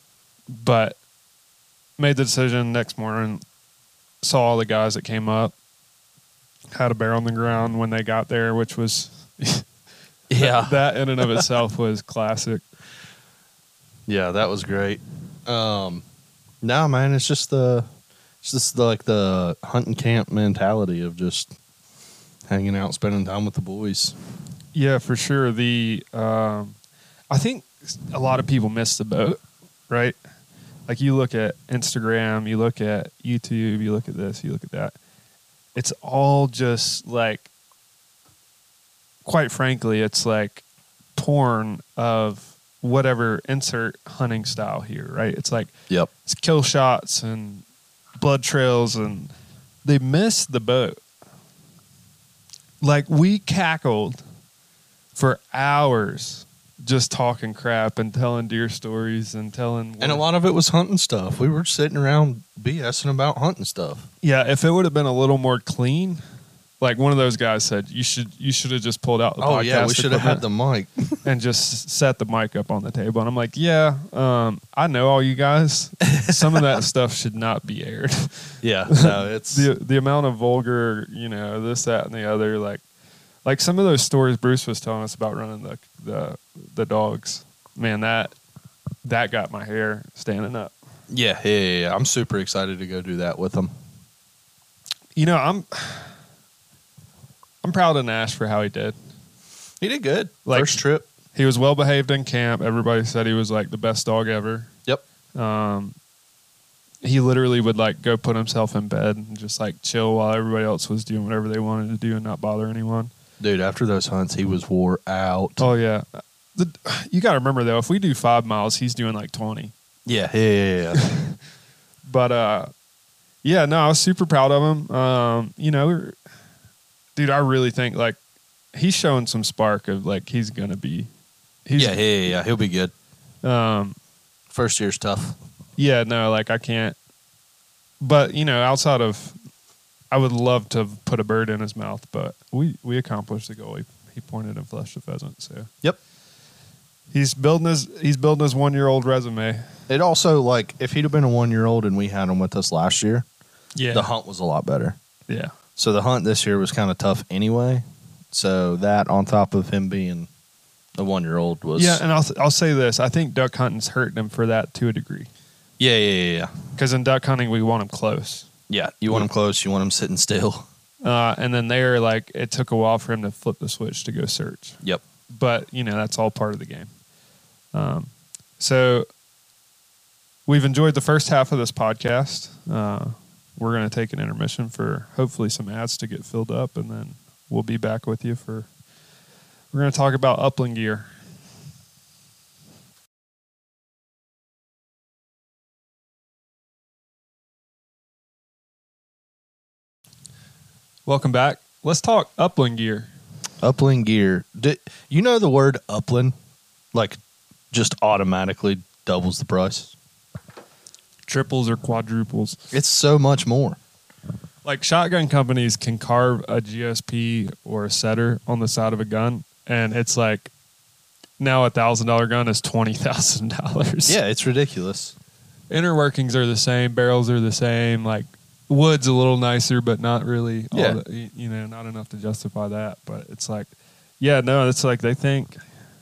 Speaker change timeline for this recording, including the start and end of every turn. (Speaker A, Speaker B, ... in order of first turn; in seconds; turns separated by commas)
Speaker A: 0.5-1.0, Speaker A: 2.0-3.4, Speaker A: 4.2-5.5, Speaker A: 6.7-9.7, Speaker B: 10.3-10.8, Speaker A: 10.4-12.6, Speaker B: 14.1-16.0, Speaker B: 16.6-17.9, Speaker B: 18.4-21.5, Speaker B: 22.5-24.1, Speaker A: 24.7-26.8, Speaker A: 27.3-30.1, Speaker A: 30.9-34.9, Speaker A: 35.8-37.5, Speaker A: 39.2-40.6, Speaker A: 41.1-45.7, Speaker A: 46.2-47.6, Speaker A: 48.2-49.3, Speaker A: 49.9-51.0, Speaker A: 52.8-54.2, Speaker A: 55.1-60.2, Speaker B: 60.0-64.1, Speaker A: 64.2-66.2, Speaker A: 66.8-70.4, Speaker B: 69.4-71.2, Speaker A: 71.2-82.8, Speaker B: 76.2-76.6, Speaker B: 78.6-79.7, Speaker A: 83.4-88.3, Speaker A: 89.0-90.7, Speaker B: 91.1-93.7, Speaker A: 95.2-96.1, Speaker A: 97.6-98.9, Speaker B: 99.8-101.1, Speaker A: 100.5-100.8, Speaker A: 101.3-104.7, Speaker A: 105.4-106.0, Speaker A: 107.0-113.1, Speaker B: 113.4-115.7, Speaker A: 115.6-119.7, Speaker B: 120.0-121.0, Speaker A: 120.9-121.4, Speaker A: 122.0-122.7, Speaker A: 123.4-126.2, Speaker A: 127.2-128.2, Speaker A: 128.7-131.1, Speaker A: 131.7-132.0, Speaker B: 131.8-132.9, Speaker A: 133.4-133.9, Speaker B: 134.5-135.4, Speaker A: 135.8-136.9, Speaker A: 138.0-139.3, Speaker A: 140.1-145.7, Speaker A: 147.1-149.6, Speaker B: 149.9-153.2, Speaker A: 153.8-154.1, Speaker B: 153.9-155.0, Speaker B: 155.8-160.3, Speaker B: 161.0-162.0, Speaker A: 161.8-165.3, Speaker B: 165.8-166.5, Speaker A: 166.8-168.5, Speaker B: 168.7-170.7, Speaker A: 171.0-174.8, Speaker A: 175.3-176.9, Speaker A: 177.7-179.1, Speaker A: 180.5-188.7, Speaker A: 189.7-191.1, Speaker A: 201.1-203.1, Speaker B: 203.6-206.3, Speaker B: 207.7-209.9, Speaker A: 211.3-212.6, Speaker B: 212.7-213.8, Speaker A: 214.6-220.5, Speaker A: 221.4-224.2, Speaker B: 224.1-225.1, Speaker A: 225.7-235.6, Speaker B: 230.7-231.0